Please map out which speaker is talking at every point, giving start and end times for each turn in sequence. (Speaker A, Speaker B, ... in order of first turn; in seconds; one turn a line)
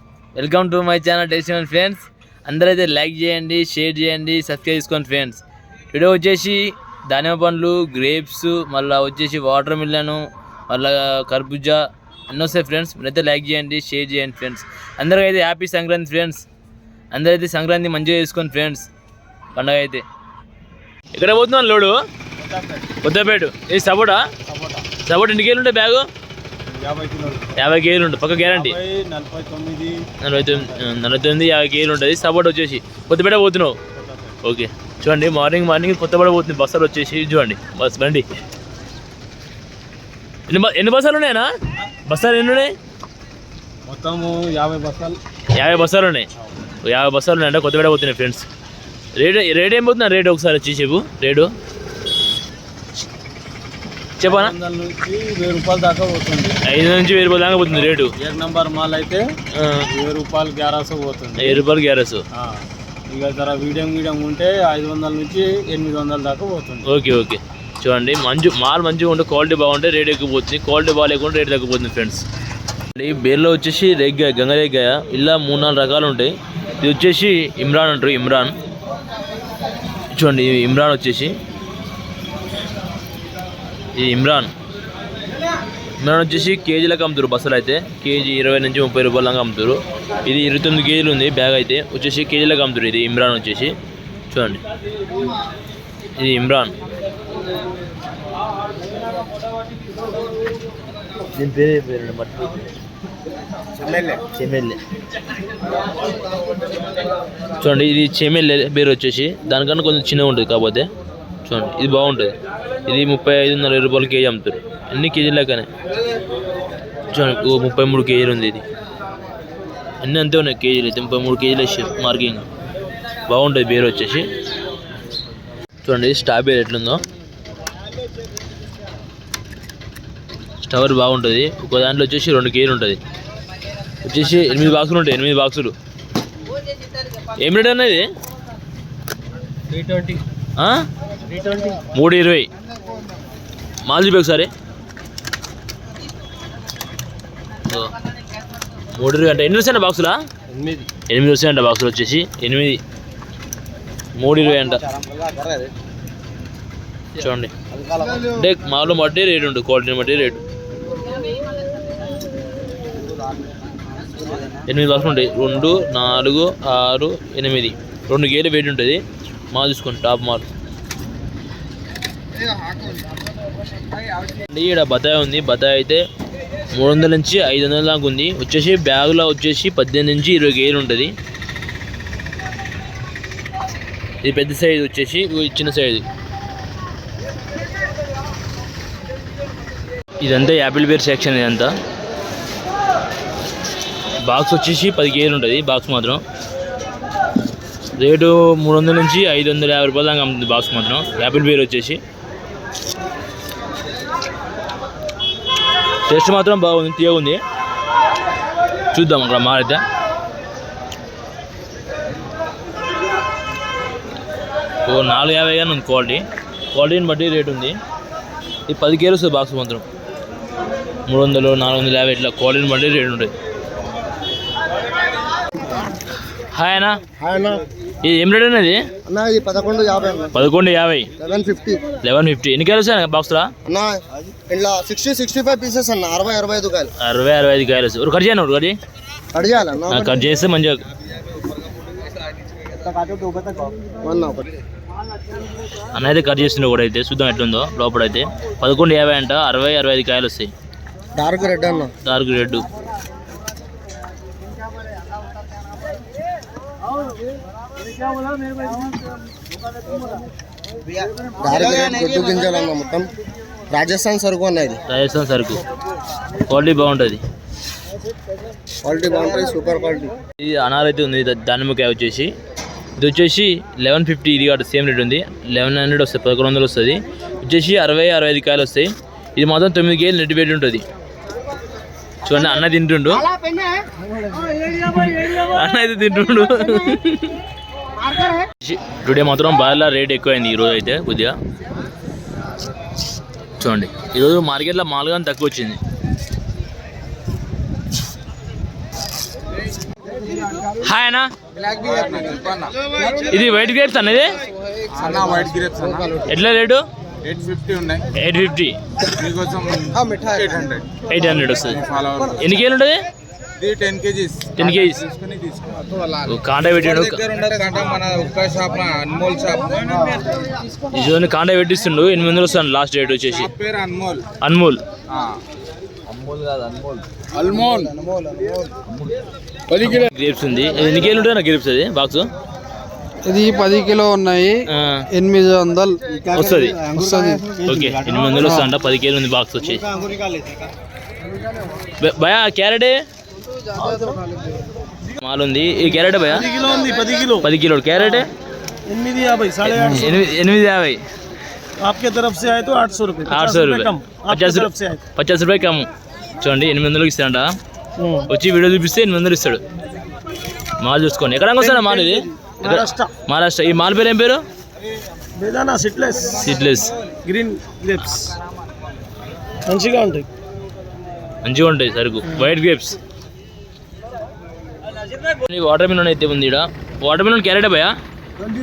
Speaker A: 0.4-16.4
Speaker A: 17.1-18.9
Speaker A: 19.5-20.0
Speaker A: 21.1-22.0
Speaker B: 22.4-22.9
Speaker A: 23.0-24.3
Speaker B: 24.4-24.9
Speaker A: 25.0-26.1
Speaker B: 26.7-27.5
Speaker A: 27.6-28.8
Speaker B: 28.5-30.0
Speaker A: 30.2-33.8
Speaker B: 30.5-30.8
Speaker B: 34.0-34.3
Speaker A: 34.4-38.2
Speaker A: 40.5-41.5
Speaker A: 42.1-42.8
Speaker B: 43.9-45.2
Speaker A: 45.5-46.3
Speaker A: 46.8-48.5
Speaker A: 49.2-51.5
Speaker A: 54.2-54.5
Speaker B: 54.2-56.6
Speaker A: 56.6-58.1
Speaker B: 58.2-59.2
Speaker A: 59.5-59.9
Speaker B: 59.9-61.6
Speaker A: 61.4-62.2
Speaker B: 62.4-66.9
Speaker A: 66.8-72.2
Speaker A: 72.9-78.6
Speaker A: 80.1-81.4
Speaker A: 84.0-84.5
Speaker A: 86.0-93.8
Speaker A: 94.3-94.6
Speaker A: 96.2-96.7
Speaker A: 101.3-102.7
Speaker B: 103.8-104.2
Speaker A: 104.3-104.8
Speaker A: 107.6-110.9
Speaker A: 111.5-112.3
Speaker A: 112.9-115.7
Speaker A: 117.1-118.7
Speaker A: 120.0-122.5
Speaker A: 123.3-124.3
Speaker A: 125.8-127.0
Speaker A: 130.6-133.0
Speaker A: 134.0-135.8
Speaker A: 137.3-138.1
Speaker B: 139.7-140.2
Speaker A: 140.6-140.9
Speaker B: 141.3-141.8
Speaker A: 141.9-142.5
Speaker A: 143.8-144.5
Speaker A: 148.9-150.2
Speaker B: 150.5-150.9
Speaker A: 151.1-152.8
Speaker A: 154.2-154.8
Speaker B: 154.5-155.7
Speaker A: 157.2-157.5
Speaker B: 157.7-158.2
Speaker A: 158.2-160.4
Speaker B: 164.1-164.5
Speaker A: 164.7-169.0
Speaker A: 169.5-170.5
Speaker A: 174.5-176.0
Speaker A: 176.8-181.1
Speaker A: 184.2-186.0
Speaker A: 190.2-191.7
Speaker A: 194.2-196.2
Speaker A: 198.0-202.0
Speaker A: 206.1-207.4
Speaker A: 208.9-209.8
Speaker A: 214.9-217.8
Speaker A: 218.7-219.8
Speaker A: 221.1-223.3
Speaker A: 226.5-227.0
Speaker C: 227.2-227.6
Speaker A: 228.0-228.8
Speaker C: 229.1-230.3
Speaker A: 230.3-231.1
Speaker C: 231.2-231.9
Speaker A: 232.0-233.5
Speaker C: 233.7-236.9
Speaker A: 237.0-238.8
Speaker C: 239.3-240.3
Speaker A: 239.9-240.8
Speaker B: 242.7-243.9
Speaker C: 244.0-244.5
Speaker A: 245.9-250.5
Speaker C: 251.2-251.9
Speaker A: 252.0-252.7
Speaker C: 261.4-263.1
Speaker C: 263.7-264.8
Speaker A: 264.9-265.6
Speaker A: 266.5-267.2
Speaker C: 268.8-270.1
Speaker A: 270.4-272.3
Speaker A: 273.0-280.8
Speaker A: 282.2-283.3
Speaker A: 284.8-287.4
Speaker A: 288.6-291.4
Speaker A: 293.6-295.8
Speaker A: 300.8-301.3
Speaker D: 301.6-303.1
Speaker A: 303.1-304.4
Speaker D: 304.9-306.2
Speaker A: 306.2-306.8
Speaker D: 307.2-308.1
Speaker A: 308.1-308.8
Speaker D: 309.1-312.4
Speaker A: 311.1-313.0
Speaker D: 313.6-316.2
Speaker A: 314.6-315.1
Speaker A: 316.2-317.2
Speaker D: 316.8-320.3
Speaker A: 320.9-323.5
Speaker D: 323.5-324.3
Speaker A: 324.4-324.8
Speaker A: 326.1-327.0
Speaker D: 327.3-328.4
Speaker B: 328.2-328.6
Speaker A: 328.9-329.1
Speaker A: 329.7-332.3
Speaker E: 333.2-336.0
Speaker A: 334.7-335.1
Speaker B: 336.1-338.5
Speaker A: 336.3-336.8
Speaker E: 337.0-337.4
Speaker A: 337.7-339.9
Speaker B: 339.6-340.7
Speaker A: 342.0-343.0
Speaker B: 343.8-344.2
Speaker E: 344.1-344.6
Speaker A: 345.2-346.5
Speaker B: 346.3-347.5
Speaker A: 347.4-348.3
Speaker B: 348.9-350.2
Speaker A: 349.6-351.0
Speaker B: 351.8-355.0
Speaker A: 353.3-355.9
Speaker A: 356.4-357.6
Speaker B: 358.0-358.3
Speaker A: 358.3-359.6
Speaker A: 360.8-364.4
Speaker B: 361.6-363.1
Speaker B: 365.4-366.5
Speaker A: 366.4-366.9
Speaker B: 367.2-368.4
Speaker B: 369.7-370.3
Speaker A: 371.4-373.0
Speaker A: 375.4-377.9